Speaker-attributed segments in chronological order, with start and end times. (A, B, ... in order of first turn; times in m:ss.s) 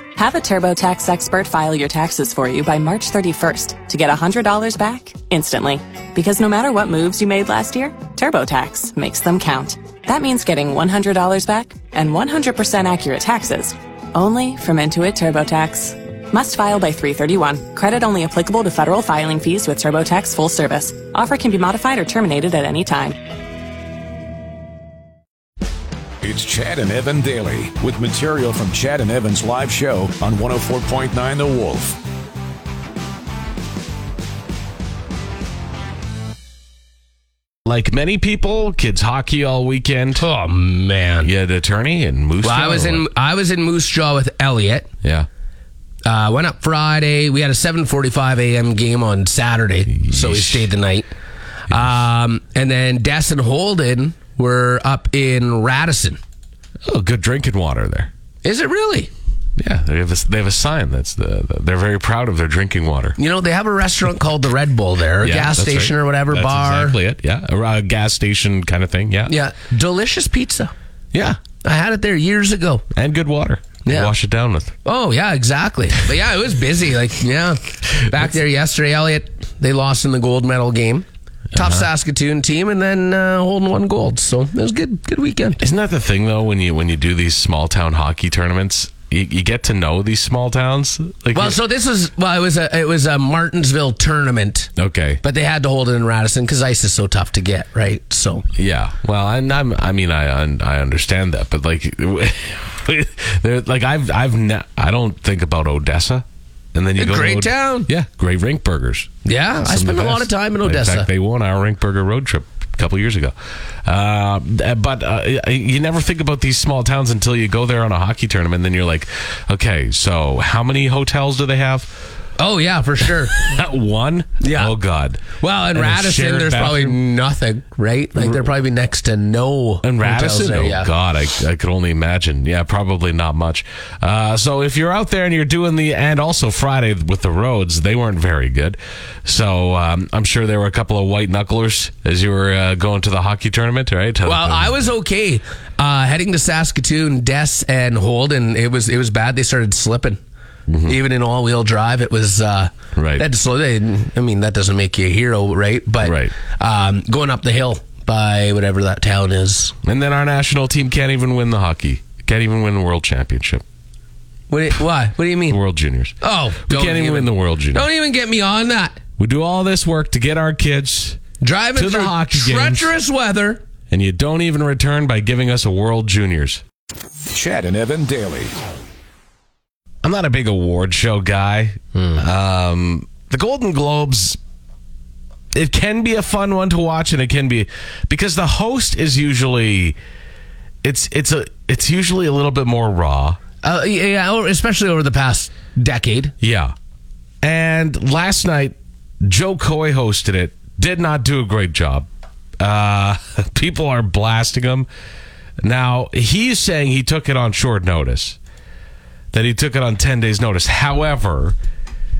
0:00.2-0:23.2 A
0:26.2-0:32.0 B
0:37.6-0:40.2 C
0:40.1-0:41.3 D
0:41.2-0:43.0 C
0:42.4-0:44.9 D
0:46.0-0:51.1 D
0:49.9-0:50.7 C
0:51.7-0:56.2 D
0:56.8-0:58.1 C
0:58.4-0:59.1 D
0:59.6-1:03.2 C
1:03.2-1:07.0 D
1:05.2-1:09.3 C
1:09.3-1:10.7 D
1:11.1-1:11.4 C
1:11.6-1:12.8 D
1:12.9-1:14.7 C
1:13.8-1:14.1 D
1:14.8-1:25.6 D
1:21.5-1:21.9 C
1:25.6-1:31.6 C
1:31.3-1:34.7 D
1:34.8-1:35.2 C
1:35.2-1:38.4 D
1:38.5-1:49.1 C
1:47.0-1:47.9 D
1:49.2-1:51.1 D
1:49.6-2:01.9 C
2:02.4-2:03.4 D
2:03.3-2:05.2 C
2:04.4-2:04.7 D
2:05.4-2:10.9 D
2:05.7-2:07.0 C
2:09.8-2:24.9 C
2:24.2-2:30.2 D
2:30.7-2:31.0 C
2:30.8-2:39.7 D
2:32.9-2:33.3 C
2:36.0-2:36.3 C
2:39.8-2:43.6 C
2:44.5-2:45.6 D
2:45.5-2:46.1 C
2:46.2-2:49.0 D
2:46.7-2:47.9 C
2:49.2-2:51.2 C
2:51.4-2:53.6 D
2:51.7-2:52.9 C
2:53.9-2:56.6 C
2:57.3-2:58.5 B
3:00.0-3:04.4 C
3:05.5-3:10.0 C
3:10.8-3:13.4 C
3:13.6-3:16.3 D
3:16.4-3:16.7 C
3:17.4-3:22.1 C
3:22.6-3:24.9 C
3:25.6-3:28.4 C
3:29.3-3:31.6 C